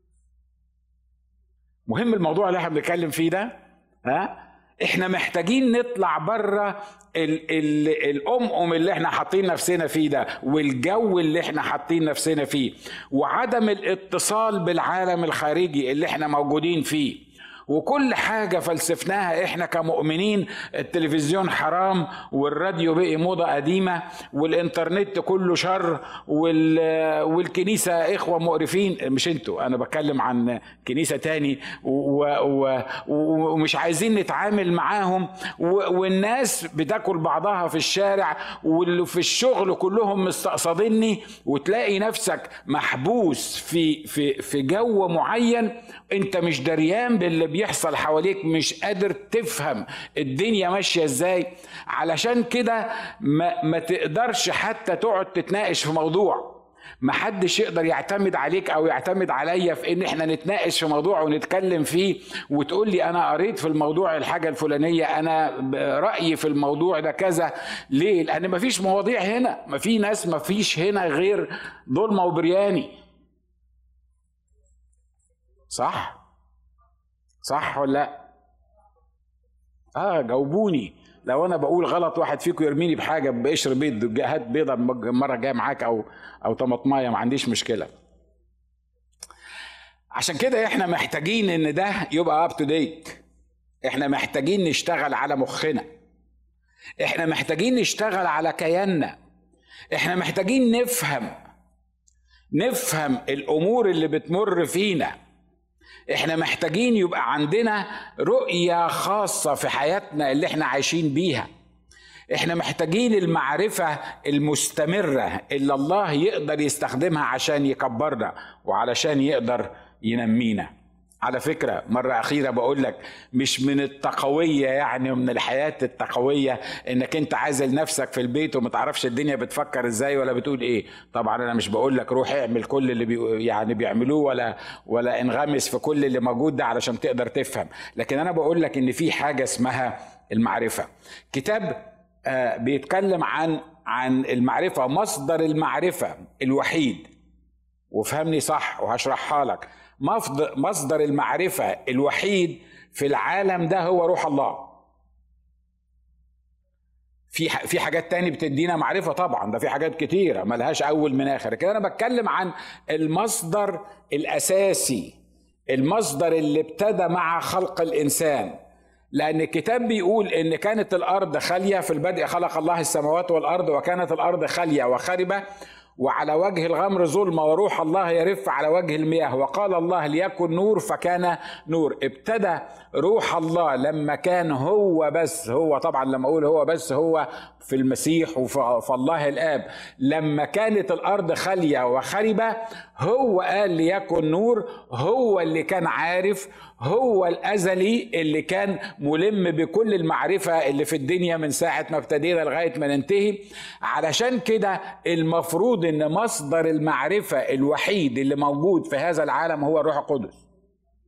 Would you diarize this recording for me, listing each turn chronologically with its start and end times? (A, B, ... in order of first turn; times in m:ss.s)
0:01.9-1:13.0 A
1:15.7-1:16.2 A
1:17.4-1:18.2 A
1:20.0-1:27.9 A
1:30.2-1:33.2 A
1:33.8-1:35.9 A
1:37.0-1:39.2 A
1:39.9-1:41.3 A
1:42.5-1:45.1 A
1:46.1-1:51.5 A
1:52.3-2:00.7 A
2:01.2-2:27.1 A
2:27.9-2:34.8 A
2:37.3-2:45.2 A
2:45.7-2:48.6 A
2:49.1-2:55.4 A
2:56.0-3:30.4 A